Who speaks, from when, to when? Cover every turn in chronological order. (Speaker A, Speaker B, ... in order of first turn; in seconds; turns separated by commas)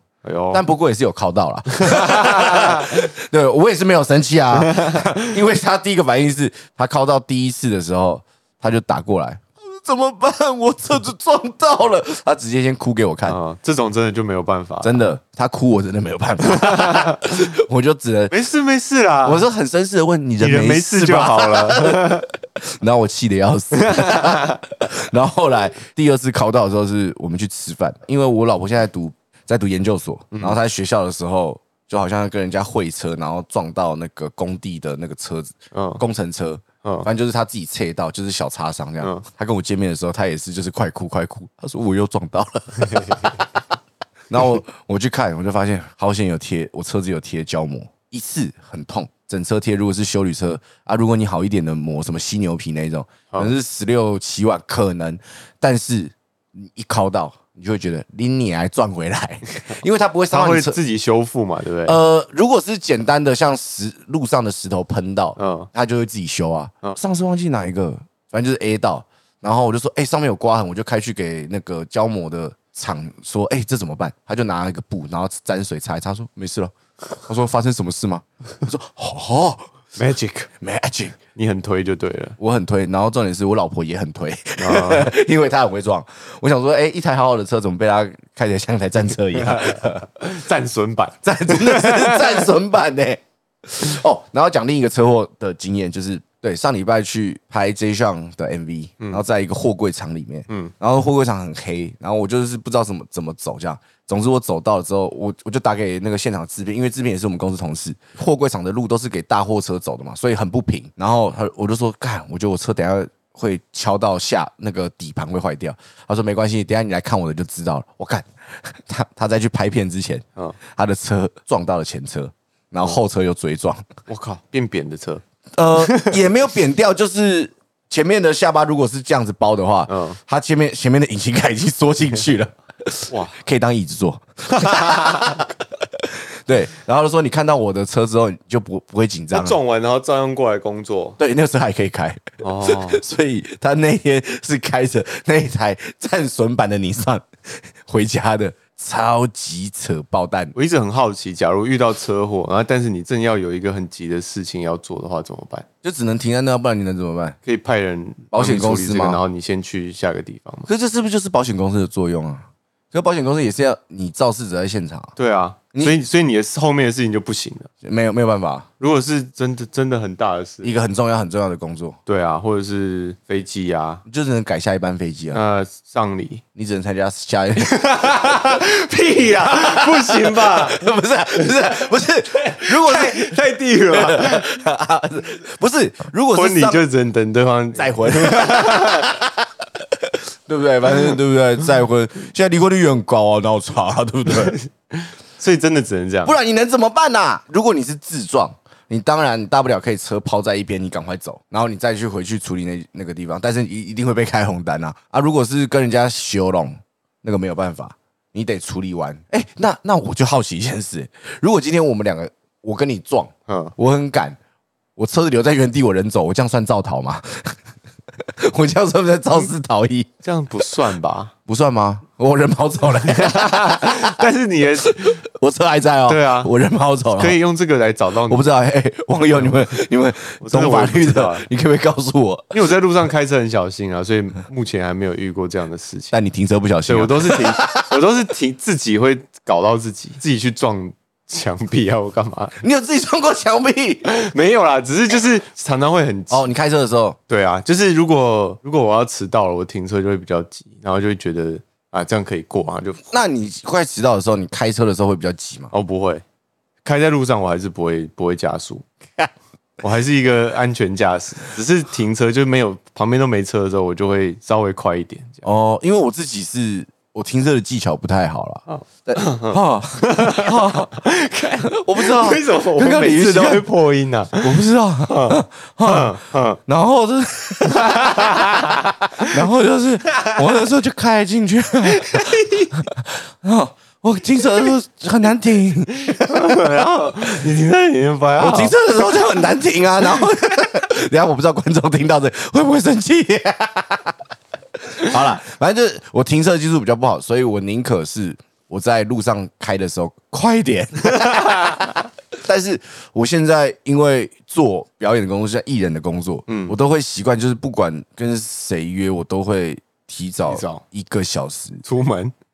Speaker A: 0.2-0.7, Speaker B: 0.5-13.4, Speaker A: 1.8-3.1, Speaker A: 4.6-5.1, Speaker A: 13.2-15.1, Speaker B: 14.8-18.3, Speaker A: 16.6-17.3, Speaker A: 18.3-19.5, Speaker B: 19.2-43.3, Speaker A: 20.4-22.3, Speaker A: 23.8-24.6, Speaker A: 30.3-30.6, Speaker A: 35.7-36.0, Speaker A: 39.0-39.2, Speaker B: 44.3-60.8, Speaker A: 60.3-62.0, Speaker B: 61.9-76.7, Speaker A: 65.4-65.7, Speaker B: 77.2-79.7, Speaker A: 80.0-80.5, Speaker B: 80.6-81.2, Speaker A: 81.3-82.4, Speaker B: 82.4-90.0, Speaker A: 84.6-85.1, Speaker A: 89.4-92.5, Speaker B: 91.2-123.8, Speaker A: 100.5-100.7, Speaker A: 124.1-125.2, Speaker B: 125.6-139.6, Speaker A: 125.8-126.2, Speaker A: 129.9-130.2, Speaker A: 133.1-133.4, Speaker A: 134.5-135.3, Speaker A: 139.3-141.2, Speaker B: 141.2-150.5, Speaker A: 142.4-143.0, Speaker A: 150.6-155.7, Speaker B: 155.8-157.4, Speaker A: 157.4-160.7, Speaker B: 158.3-159.2, Speaker B: 160.7-165.1, Speaker A: 165.2-167.7, Speaker B: 167.8-168.7, Speaker A: 168.8-170.7, Speaker B: 170.6-172.0, Speaker A: 172.1-174.0, Speaker B: 174.1-175.4, Speaker A: 175.3-176.4, Speaker B: 176.6-178.4, Speaker A: 177.6-180.8, Speaker B: 179.3-183.4, Speaker A: 182.6-184.5, Speaker B: 183.9-186.8, Speaker A: 186.3-189.1, Speaker B: 187.8-194.6, Speaker A: 194.5-196.3, Speaker B: 196.2-214.4, Speaker A: 213.5-213.7, Speaker B: 215.0-217.6, Speaker B: 218.2-220.1, Speaker A: 220.2-221.3, Speaker B: 221.5-224.2, Speaker A: 223.1-225.2, Speaker B: 224.8-227.4, Speaker A: 226.1-226.5, Speaker A: 227.2-228.5, Speaker B: 228.3-232.5, Speaker A: 230.4-231.5, Speaker A: 232.5-236.1, Speaker B: 236.1-237.9, Speaker A: 236.9-242.6, Speaker B: 242.6-244.1, Speaker A: 244.1-246.5, Speaker B: 246.3-247.2, Speaker A: 247.3-253.0, Speaker B: 253.1-255.7, Speaker A: 255.7-256.2, Speaker A: 256.9-258.9, Speaker A: 259.8-265.4, Speaker B: 265.4-270.9, Speaker A: 268.7-276.6, Speaker B: 271.7-273.7, Speaker B: 274.4-278.6, Speaker A: 277.6-279.3, Speaker B: 279.2-287.1, Speaker A: 281.8-282.8, Speaker A: 286.0-288.8, Speaker B: 288.4-294.1, Speaker B: 294.9-311.8, Speaker A: 306.5-306.8, Speaker A: 310.5-310.8, Speaker A: 311.8-312.3